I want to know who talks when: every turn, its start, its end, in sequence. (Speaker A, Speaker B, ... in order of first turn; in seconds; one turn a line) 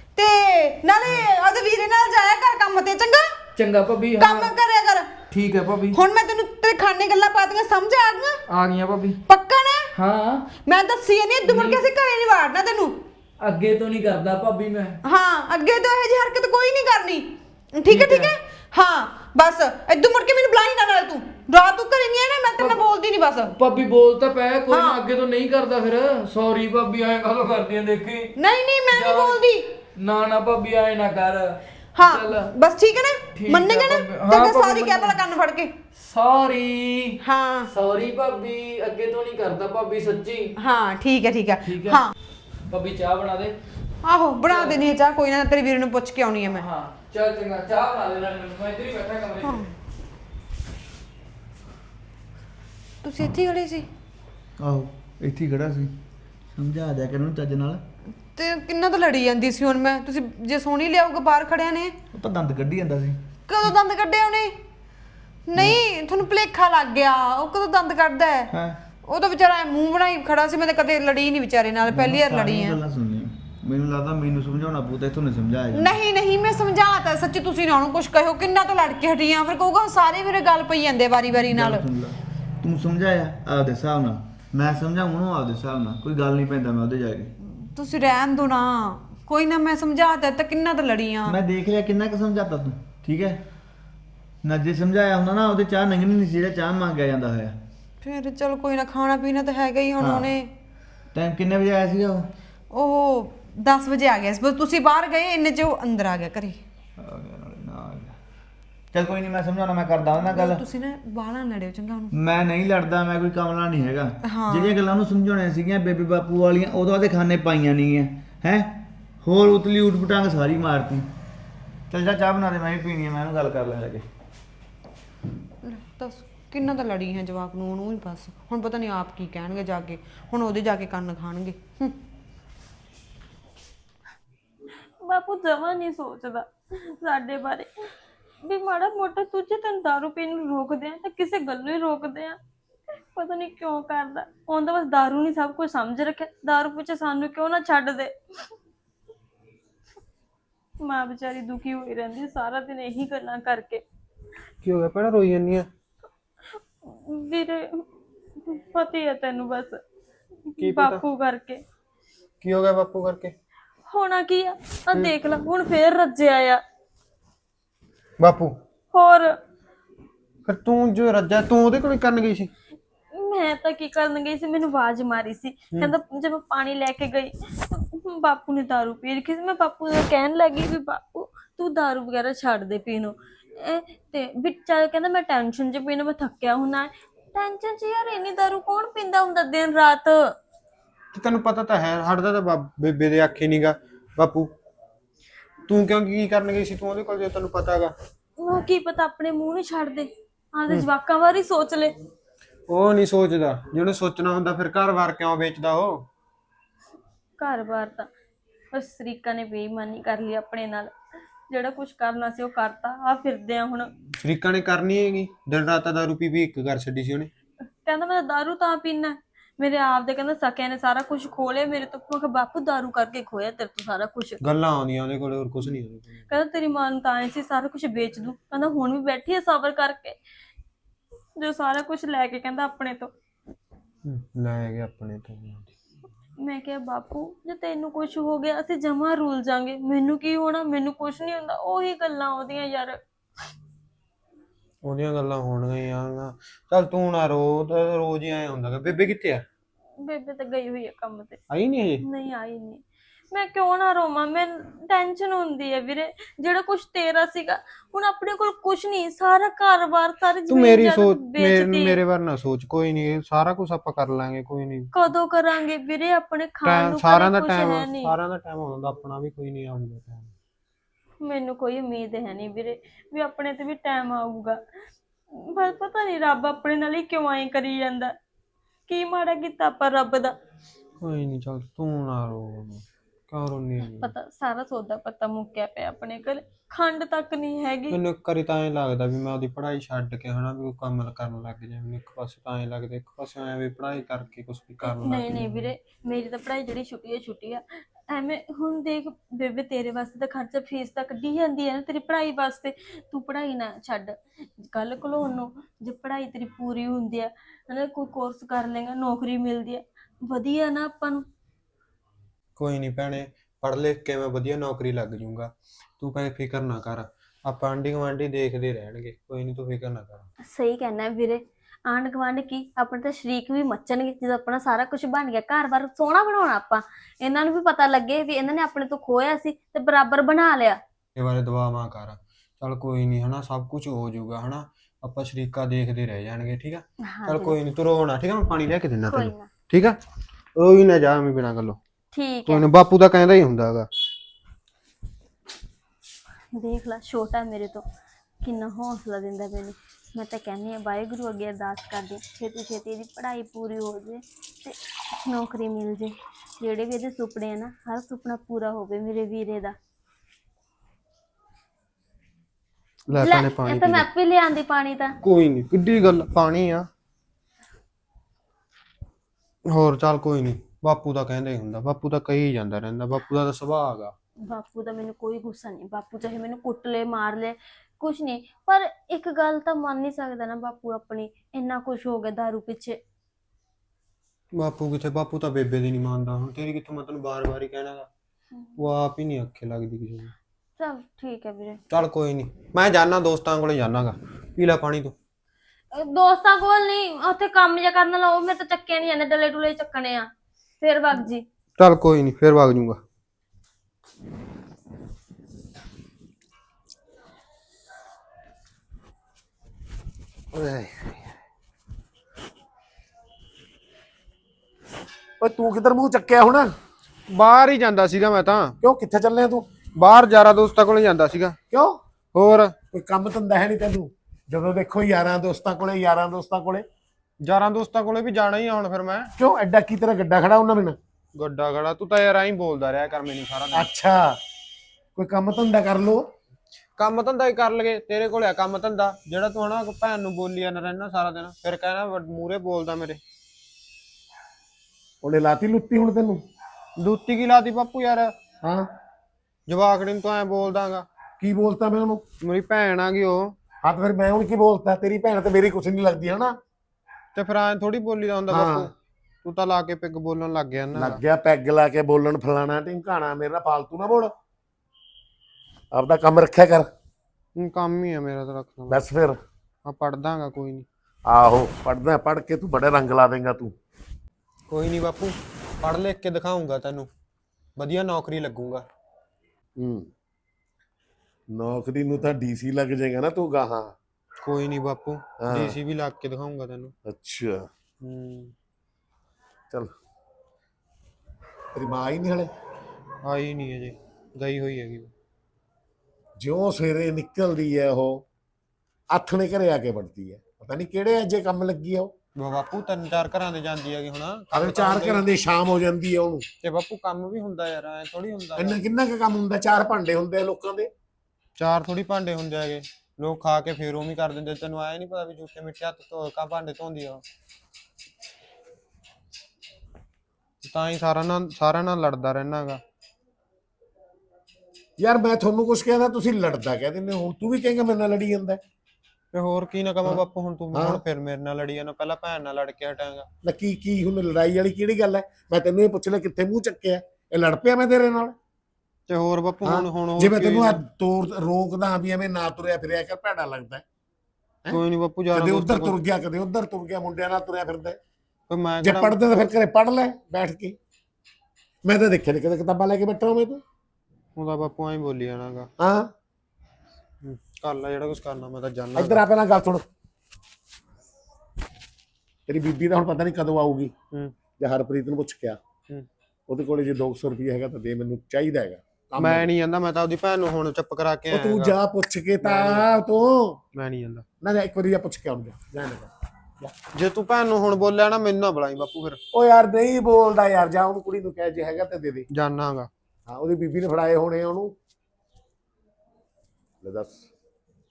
Speaker A: 0.1-3.4
Speaker B: 3.5-4.5
Speaker A: 4.2-5.1
Speaker B: 5.3-6.0
Speaker A: 5.9-8.4
Speaker B: 8.5-9.2
Speaker A: 9.3-9.9
Speaker B: 9.9-10.4
Speaker A: 10.7-12.9
Speaker B: 11.4-11.8
Speaker B: 13.4-15.0
Speaker A: 15.0-23.5
Speaker B: 17.9-18.3
Speaker B: 23.6-28.3
Speaker A: 24.7-25.0
Speaker A: 28.4-29.7
Speaker B: 28.9-29.4
Speaker B: 29.9-32.5
Speaker A: 31.9-35.7
Speaker B: 33.3-35.2
Speaker B: 35.9-37.2
Speaker A: 37.2-37.7
Speaker B: 37.7-40.5
Speaker A: 40.5-42.1
Speaker B: 41.7-42.0
Speaker B: 42.7-43.5
Speaker A: 44.0-46.6
Speaker B: 44.5-44.8
Speaker B: 46.5-49.6
Speaker A: 49.4-49.7
Speaker A: 53.0-53.9
Speaker C: 54.6-55.9
Speaker C: 56.5-57.8
Speaker A: 58.4-62.0
Speaker C: 62.1-63.2
Speaker A: 63.5-64.6
Speaker A: 65.5-68.5
Speaker C: 68.5-68.8
Speaker A: 69.0-72.8
Speaker C: 71.9-75.9
Speaker A: 75.7-81.9
Speaker C: 81.5-87.3
Speaker A: 87.6-91.4
Speaker C: 91.3-93.4
Speaker C: 94.4-97.6
Speaker A: 98.0-100.5
Speaker C: 100.0-100.3
Speaker C: 101.1-102.3
Speaker A: 102.7-106.6
Speaker C: 107.0-108.2
Speaker C: 108.9-110.6
Speaker A: 110.2-112.1
Speaker C: 112.1-121.1
Speaker A: 114.2-114.8
Speaker C: 121.9-124.0
Speaker A: 125.6-132.0
Speaker D: 135.0-137.7
Speaker D: 138.4-142.4
Speaker D: 143.1-148.5
Speaker D: 150.8-153.8
Speaker E: 154.6-155.7
Speaker D: 156.8-157.9
Speaker D: 158.4-159.8
Speaker D: 160.5-161.6
Speaker E: 160.6-161.0
Speaker E: 162.4-163.3
Speaker D: 163.9-166.6
Speaker E: 168.2-168.6
Speaker D: 168.9-169.3
Speaker E: 170.4-172.5
Speaker D: 173.1-190.3
Speaker E: 191.1-194.5
Speaker E: 195.7-197.9
Speaker D: 198.4-201.9
Speaker E: 202.7-206.1
Speaker D: 207.4-208.1
Speaker D: 208.7-210.9
Speaker D: 211.5-213.9
Speaker E: 214.2-217.3
Speaker D: 217.8-224.4
Speaker E: 224.4-226.3
Speaker D: 226.3-230.2
Speaker D: 231.4-233.1
Speaker E: 234.0-235.7
Speaker D: 236.4-243.0
Speaker E: 244.8-249.4
Speaker D: 250.0-251.4
Speaker E: 251.5-252.0
Speaker D: 252.0-261.9
Speaker E: 260.5-264.9
Speaker D: 264.9-268.1
Speaker E: 266.6-270.3
Speaker D: 271.2-274.6
Speaker D: 275.3-278.1
Speaker D: 278.9-280.4
Speaker E: 281.0-284.1
Speaker D: 283.8-288.0
Speaker E: 287.9-295.7
Speaker D: 294.8-311.2
Speaker E: 312.6-320.3
Speaker D: 320.5-330.8
Speaker E: 331.1-340.0
Speaker D: 337.0-337.6
Speaker D: 339.1-339.5
Speaker E: 340.6-341.8
Speaker D: 342.1-342.7
Speaker E: 342.5-343.9
Speaker D: 346.6-347.8
Speaker D: 348.4-359.7
Speaker E: 363.1-364.1
Speaker D: 363.1-365.1
Speaker E: 365.2-366.9
Speaker E: 369.7-374.1
Speaker D: 374.5-383.0
Speaker E: 384.6-388.1
Speaker E: 388.8-390.3
Speaker D: 390.8-391.8
Speaker E: 391.9-395.1
Speaker D: 395.9-401.4
Speaker E: 401.8-403.0
Speaker F: 410.5-411.1
Speaker F: 415.4-416.7
Speaker E: 417.3-418.8
Speaker F: 418.8-419.7
Speaker E: 420.0-421.6
Speaker F: 421.7-422.0
Speaker E: 422.4-422.7
Speaker F: 422.9-426.9
Speaker E: 427.4-429.3
Speaker F: 429.4-431.0
Speaker E: 431.4-433.9
Speaker F: 433.7-434.4
Speaker F: 435.1-436.2
Speaker E: 437.0-443.2
Speaker F: 445.2-446.4
Speaker E: 447.0-448.3
Speaker E: 449.7-451.1
Speaker F: 451.4-452.2
Speaker E: 452.4-453.5
Speaker F: 453.8-456.5
Speaker E: 457.4-461.2
Speaker F: 458.5-458.9
Speaker F: 460.9-464.3
Speaker F: 465.9-466.9
Speaker E: 467.6-469.0
Speaker F: 468.9-469.4
Speaker E: 469.9-470.9
Speaker F: 471.2-473.7
Speaker E: 474.7-477.1
Speaker E: 477.8-478.9
Speaker F: 479.8-480.1
Speaker F: 481.5-483.9
Speaker E: 484.4-486.9
Speaker F: 485.4-485.7
Speaker F: 487.1-487.7
Speaker E: 488.0-488.5
Speaker F: 491.7-492.5
Speaker E: 493.2-495.1
Speaker F: 496.4-498.2
Speaker F: 499.1-502.1
Speaker E: 502.4-505.2
Speaker F: 504.5-506.4
Speaker E: 506.6-508.8
Speaker F: 508.6-510.9
Speaker E: 511.6-517.2
Speaker E: 520.6-522.8
Speaker F: 525.0-528.6
Speaker E: 529.3-533.3
Speaker F: 530.7-531.0
Speaker F: 533.4-538.4
Speaker E: 539.1-540.8
Speaker F: 539.6-543.8
Speaker E: 544.7-546.0
Speaker F: 545.3-548.0
Speaker E: 548.5-549.2
Speaker F: 548.8-550.8
Speaker F: 551.9-553.6
Speaker E: 554.4-555.7
Speaker F: 555.8-556.1
Speaker E: 557.2-559.2
Speaker F: 558.9-559.8
Speaker F: 562.5-563.9
Speaker F: 564.6-565.6
Speaker F: 566.5-569.5
Speaker E: 569.2-571.7
Speaker F: 571.3-573.6
Speaker E: 572.4-572.9
Speaker E: 573.7-574.2
Speaker F: 574.4-576.7
Speaker E: 576.9-579.2
Speaker F: 579.3-582.2
Speaker E: 582.3-582.9
Speaker F: 583.3-584.7
Speaker F: 586.8-587.3